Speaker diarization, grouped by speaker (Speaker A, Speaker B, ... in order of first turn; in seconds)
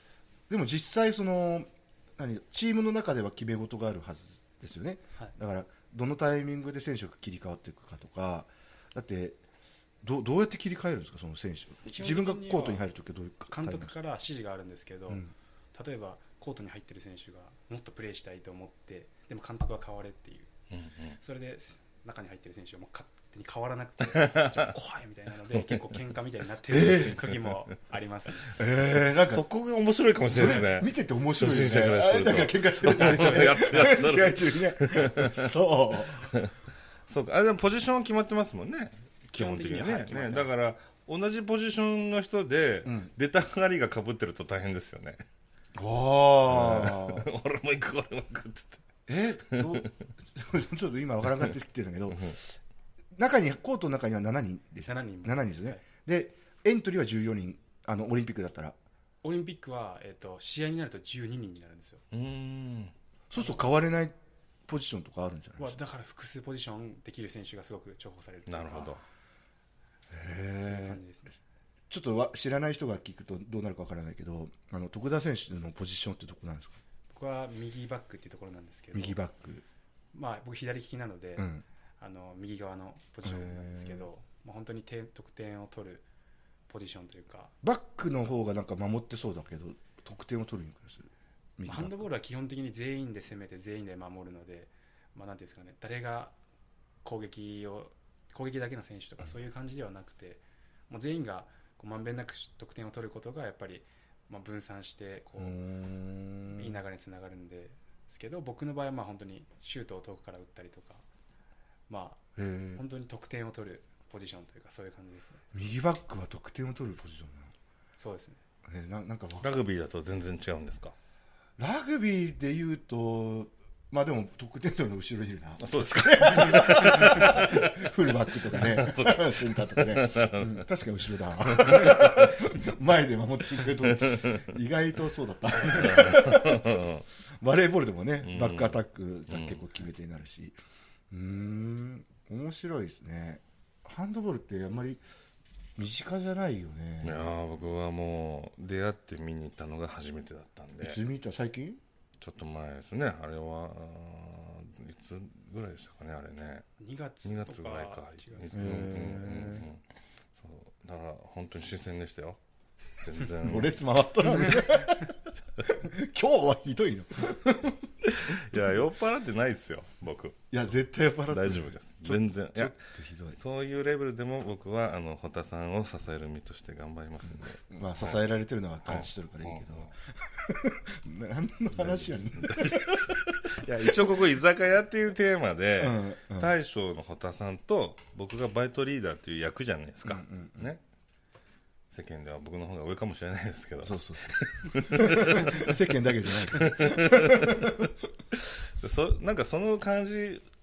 Speaker A: 0.5-9.4, 10.0-13.9, 26.7-27.2, 28.6-29.4, 30.3-36.3, 42.9-43.1, 45.7-47.3, 49.1-52.5, 53.1-58.8, 63.3-64.1, 64.7-65.8, 70.1-71.0, 71.9-76.8, 78.9-79.6, 81.4-81.6, 83.2-84.1, 87.6-92.1, 105.4-106.8, 112.3-112.8, 115.5-117.5, 118.7-119.6, 121.6-136.9, 137.4-140.6, 141.1-145.0, 145.8-147.3, 150.8-151.8, 158.5-159.7, 163.4-167.9, 168.5-168.8, 170.5-173.4, 177.3-184.3, 185.8-186.5, 190.1-190.7, 193.8-197.9
Speaker B: 11.8-12.9, 13.5-20.5, 21.2-28.6, 33.0-34.0, 39.3-40.5, 54.9-55.8, 59.2-62.0, 63.4-63.6, 65.6-69.0, 70.2-71.3, 77.1-79.2, 80.1-81.5, 82.0-86.0, 86.7-87.5, 91.6-96.3, 97.0-105.6, 106.5-111.0, 111.9-112.2, 112.7-115.4, 118.0-118.4, 156.8-159.1
Speaker C: 20.7-21.1, 24.1-24.7, 25.5-25.9, 29.1-35.5, 36.2-36.5, 37.1-45.2, 46.5-48.9, 49.5-49.9, 62.1-62.9, 68.5-69.0, 119.4-120.9, 125.6-130.6, 131.4-132.4, 133.8-134.4, 135.6-137.0, 138.2-139.6, 147.0-151.0, 152.2-156.7, 157.2-159.8, 160.4-162.4, 163.0-163.8, 168.1-170.4, 171.3-172.7, 173.3-178.2, 178.8-179.9, 181.8-190.8, 191.9-200.4